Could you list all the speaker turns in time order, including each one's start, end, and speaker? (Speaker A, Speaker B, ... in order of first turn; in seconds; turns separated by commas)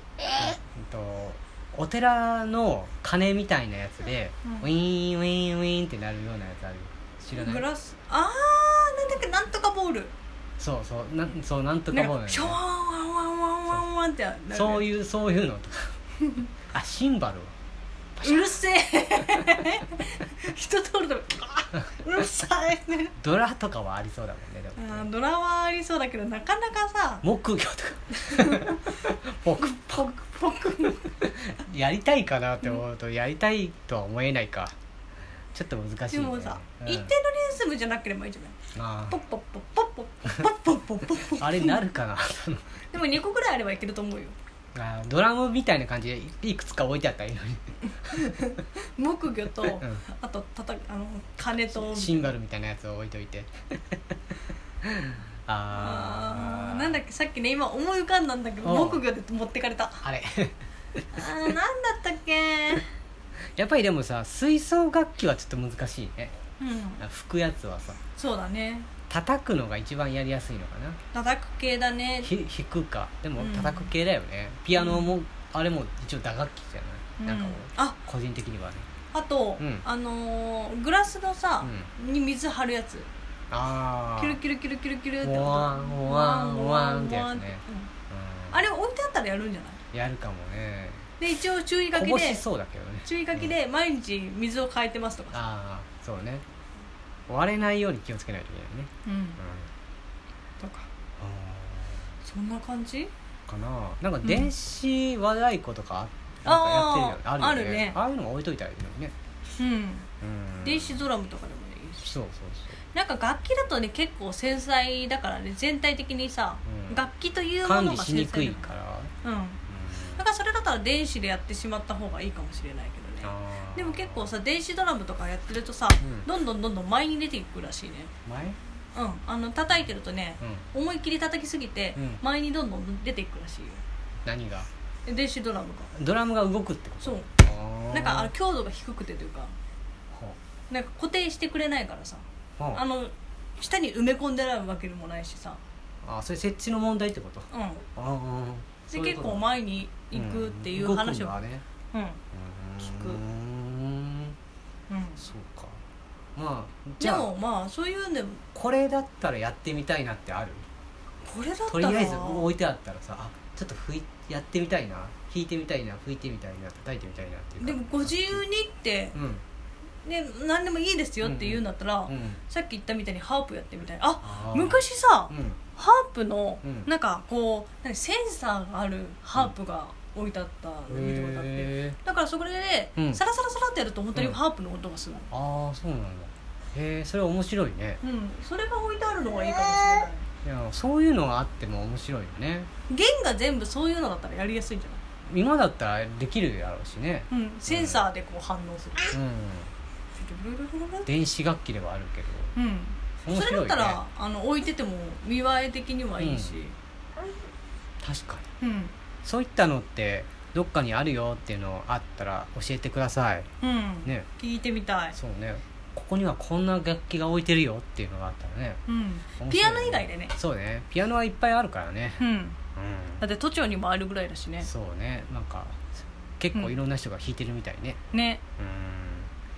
Speaker A: 0.3-7.7, Speaker B: 7.3-10.1, Speaker A: 10.6-12.6, Speaker B: 11.9-14.8, Speaker A: 14.5-16.0, Speaker A: 16.6-17.5, Speaker A: 18.2-18.5, Speaker B: 18.2-23.1, Speaker A: 23.1-25.1, Speaker B: 24.8-27.2, Speaker A: 27.2-30.1, Speaker B: 28.3-28.9, Speaker B: 29.6-31.2, Speaker A: 31.2-34.7, Speaker A: 35.5-37.1, Speaker B: 36.1-38.6, Speaker A: 38.7-39.2, Speaker B: 39.1-41.8, Speaker A: 41.1-42.6, Speaker B: 42.9-44.4, Speaker A: 44.7-48.2, Speaker B: 48.1-52.4, Speaker A: 49.8-50.0, Speaker A: 51.7-53.5, Speaker A: 54.8-56.9, Speaker B: 55.7-60.0, Speaker A: 58.6-59.0, Speaker A: 60.0-60.5, Speaker B: 61.1-62.9, Speaker A: 63.5-66.3, Speaker B: 66.6-67.0, Speaker A: 67.0-68.0, Speaker B: 68.2-68.9, Speaker A: 69.1-71.0, Speaker B: 71.1-72.3, Speaker A: 72.2-78.9, Speaker B: 73.4-73.9, Speaker B: 74.7-75.1, Speaker B: 77.2-78.0, Speaker B: 79.1-83.1, Speaker A: 79.6-79.8, Speaker A: 81.6-81.9, Speaker A: 83.5-84.4, Speaker B: 84.2-87.9, Speaker A: 85.2-88.6, Speaker B: 88.5-89.8, Speaker A: 89.9-91.0, Speaker B: 91.2-92.4, Speaker A: 91.9-93.5, Speaker B: 93.0-95.4, Speaker A: 95.3-96.4, Speaker A: 97.3-99.7, Speaker B: 99.0-99.4, Speaker B: 100.6-100.9, Speaker A: 101.2-102.0, Speaker B: 102.2-103.1, Speaker A: 103.5-109.1, Speaker B: 104.2-104.5, Speaker B: 106.4-108.0, Speaker B: 109.6-110.1, Speaker A: 110.2-111.0, Speaker B: 110.6-112.1, Speaker A: 112.0-112.8, Speaker B: 112.9-118.6, Speaker A: 116.7-117.0, Speaker A: 117.6-119.1, Speaker B: 119.2-119.6, Speaker A: 119.7-120.2, Speaker B: 120.2-128.1, Speaker A: 123.2-124.3, Speaker A: 126.0-126.3, Speaker A: 128.2-128.6, Speaker B: 128.9-133.8, Speaker A: 131.9-132.2, Speaker A: 134.2-134.7, Speaker B: 135.0-135.9, Speaker A: 135.9-138.3, Speaker B: 137.0-137.3, Speaker B: 137.9-139.5, Speaker A: 140.1-140.4, Speaker B: 140.7-145.6, Speaker A: 146.0-149.5, Speaker B: 147.5-147.8, Speaker B: 148.9-151.4, Speaker A: 150.1-151.6, Speaker B: 151.9-152.2, Speaker A: 152.3-154.4, Speaker B: 152.8-153.2, Speaker B: 154.9-155.2, Speaker A: 155.2-155.8, Speaker A: 156.3-157.3, Speaker B: 157.0-158.4, Speaker A: 158.5-160.7, Speaker B: 161.2-162.5, Speaker A: 161.7-168.4, Speaker B: 167.6-169.2, Speaker A: 169.1-169.4, Speaker B: 170.0-185.3, Speaker A: 171.2-172.4, Speaker A: 174.2-175.6, Speaker A: 176.6-176.9, Speaker A: 180.9-182.0, Speaker A: 185.3-188.0, Speaker B: 188.0-190.2, Speaker A: 190.4-192.7, Speaker B: 192.9-195.0, Speaker A: 195.3-198.0, Speaker B: 197.3-199.2, Speaker A: 199.1-199.7, Speaker B: 200.1-201.1, Speaker A: 201.1-202.5, Speaker B: 202.5-206.7, Speaker A: 203.2-204.0, Speaker A: 206.2-206.6, Speaker A: 208.0-208.5, Speaker B: 208.6-208.9, Speaker A: 209.2-213.5, Speaker B: 213.6-215.2, Speaker A: 215.1-218.8, Speaker B: 218.9-220.3, Speaker A: 219.4-222.2, Speaker B: 222.2-222.6, Speaker A: 222.8-223.2, Speaker B: 223.2-224.7, Speaker A: 224.6-228.0, Speaker B: 228.1-228.4, Speaker A: 228.6-229.3